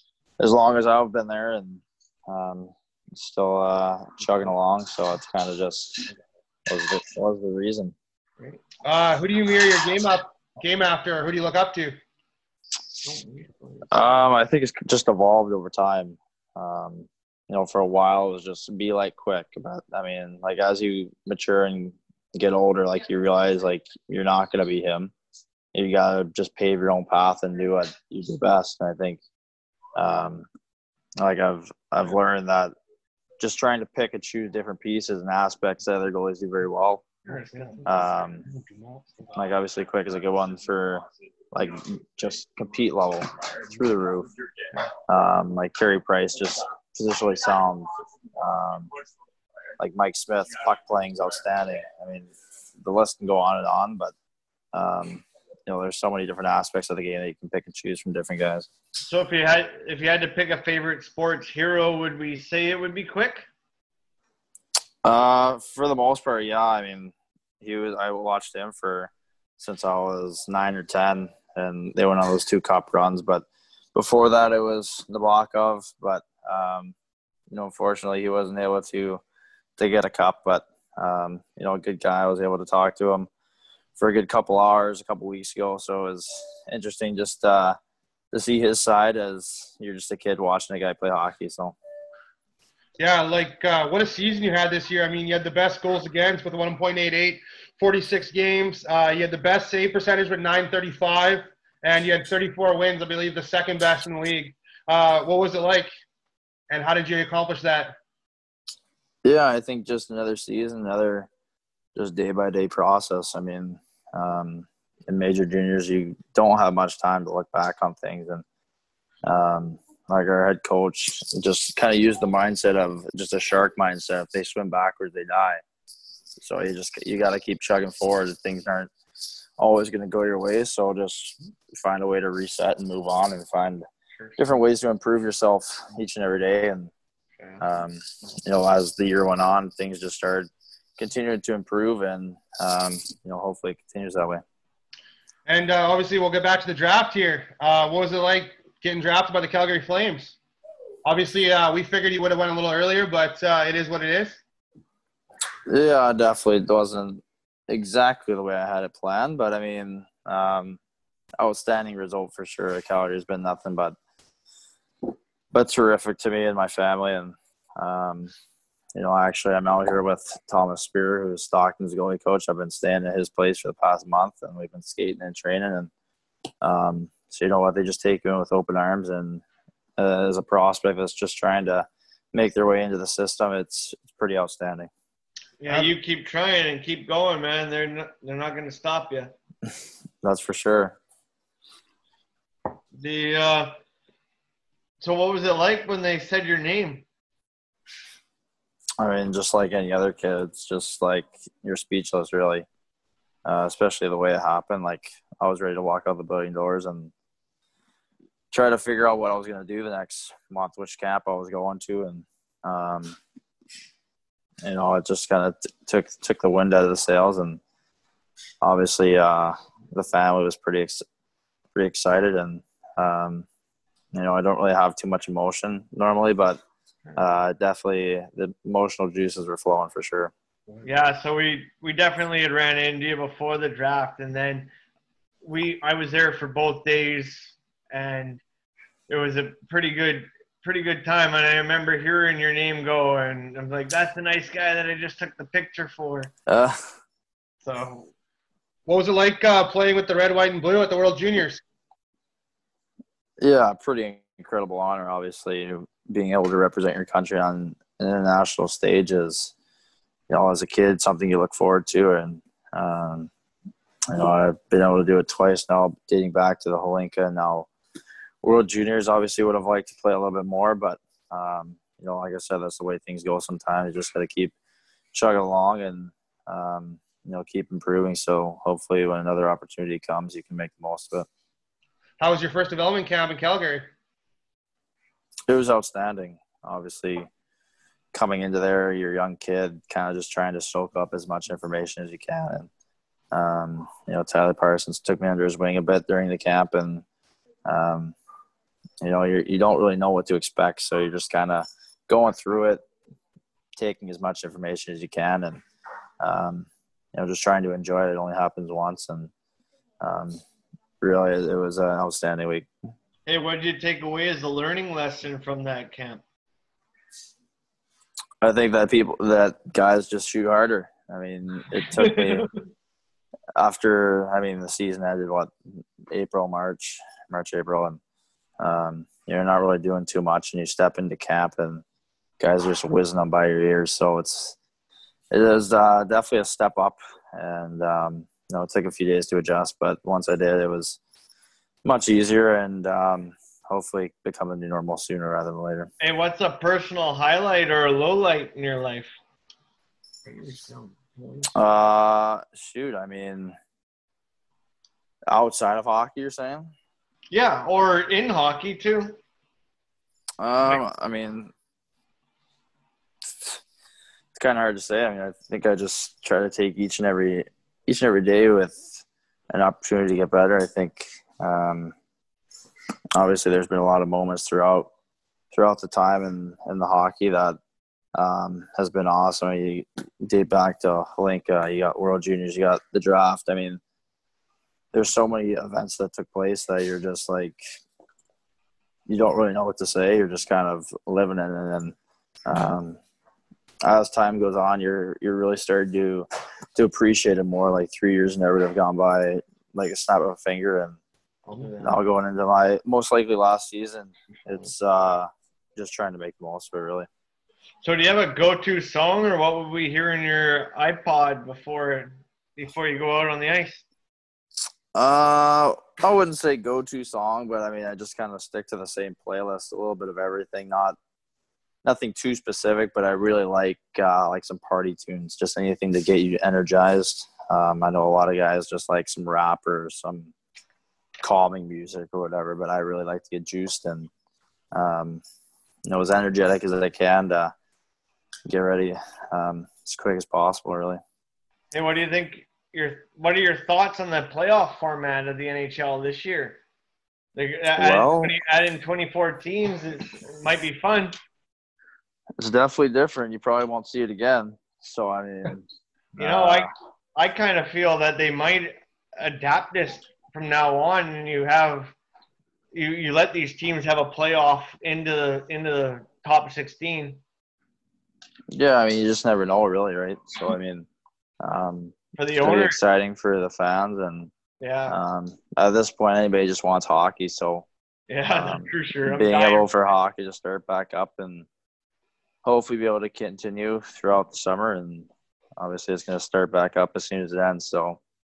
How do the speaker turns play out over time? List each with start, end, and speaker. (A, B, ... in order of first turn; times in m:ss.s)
0:00.4-0:06.1 A
0:06.7-0:07.9 A
0:08.8-0:11.9 B
0:13.0-0:13.9 C
0:13.9-0:25.1 A
0:25.7-0:29.2 A
0:30.0-0:30.5 A
0:31.2-0:32.7 A
0:33.4-0:37.0 A
0:37.2-0:38.0 C
0:37.8-0:38.5 A
0:39.3-0:44.3 A
0:45.1-0:48.9 A
0:49.8-0:52.3 A
0:52.8-0:54.1 A
0:54.7-0:58.7 A
0:59.0-1:03.5 C
1:05.0-1:16.9 A
1:17.5-1:19.2 A
1:19.8-1:23.3 A
1:24.0-1:27.8 A
1:28.3-1:31.8 A
1:33.0-1:45.9 B
1:46.7-1:47.9 B
1:49.2-1:51.3 A
1:51.9-1:58.4 A
1:59.2-2:05.6 A
2:06.4-2:08.9 A
2:09.6-2:13.8 A
2:14.4-2:16.9 A
2:17.4-2:17.6 C
2:17.6-2:24.4 A
2:25.5-2:30.4 B
2:31.0-2:34.4 B
2:35.7-2:40.8 A
2:41.4-2:44.0 A
2:45.5-2:48.3 A
2:48.9-2:55.9 A
2:56.6-2:59.4 A
3:00.0-3:04.9 A
3:05.6-3:09.3 C
3:10.2-3:11.0 A
3:13.0-3:13.7 C
3:15.0-3:17.0 C
3:19.0-3:22.6 A
3:23.4-3:27.1 A
3:28.5-3:33.2 A
3:34.6-3:37.6 A
3:38.6-3:41.0 A
3:41.7-3:43.5 A
3:44.1-3:46.6 A
3:47.2-3:50.3 A
3:50.8-3:54.7 C
3:55.4-3:58.4 C
3:59.1-4:06.3 C
4:06.5-4:06.8 A
4:07.6-4:08.1 C
4:08.8-4:11.6 B
4:13.4-4:19.5 A
4:20.3-4:23.3 A
4:24.1-4:27.7 A
4:28.4-4:34.5 A
4:35.1-4:41.3 A
4:42.2-4:43.9 B
4:45.5-4:47.3 A
4:48.1-4:52.7 A
4:53.3-4:57.0 A
4:57.6-4:58.1 A
4:59.0-5:02.8 A
5:03.8-5:05.6 A
5:06.2-5:09.3 A
5:10.0-5:10.4 A
5:11.0-5:12.7 A
5:13.2-5:16.2 C
5:18.4-5:22.5 A
5:22.0-5:22.5 C
5:23.6-5:25.5 A
5:26.1-5:28.0 A
5:28.6-5:31.8 A
5:32.4-5:34.6 A
5:35.3-5:41.0 A
5:41.8-5:45.9 A
5:46.0-5:49.1 C
5:50.2-5:51.5 C
5:51.5-5:53.5 A
5:55.3-5:56.7 A
5:57.3-5:59.2 C
6:00.4-6:01.5 A
6:03.3-6:03.6 A
6:04.3-6:11.9 A
6:13.1-6:14.9 A
6:15.5-6:17.6 A
6:18.1-6:23.8 A
6:24.9-6:27.6 A
6:29.1-6:31.9 A
6:32.4-6:33.0 A
6:33.8-6:41.0 A
6:41.5-6:42.0 C
6:41.8-6:47.1 A
6:47.8-6:53.8 C
6:54.9-7:01.0 A
7:01.8-7:10.3 A
7:11.2-7:14.1 A
7:14.7-7:15.2 A
7:15.9-7:17.5 A
7:18.5-7:21.0 A
7:21.7-7:26.6 C
7:27.4-7:31.2 C
7:27.8-7:28.3 A
7:32.4-7:35.6 A
7:36.2-7:36.7 A
7:36.2-7:41.9 C
7:42.7-7:47.2 C
7:48.5-7:50.9 A
7:51.4-7:54.3 A
7:52.2-7:52.8 C
7:54.6-7:55.0 C
7:54.9-7:57.7 A
7:58.1-7:59.7 C
7:58.3-8:01.5 A
8:02.4-8:08.0 A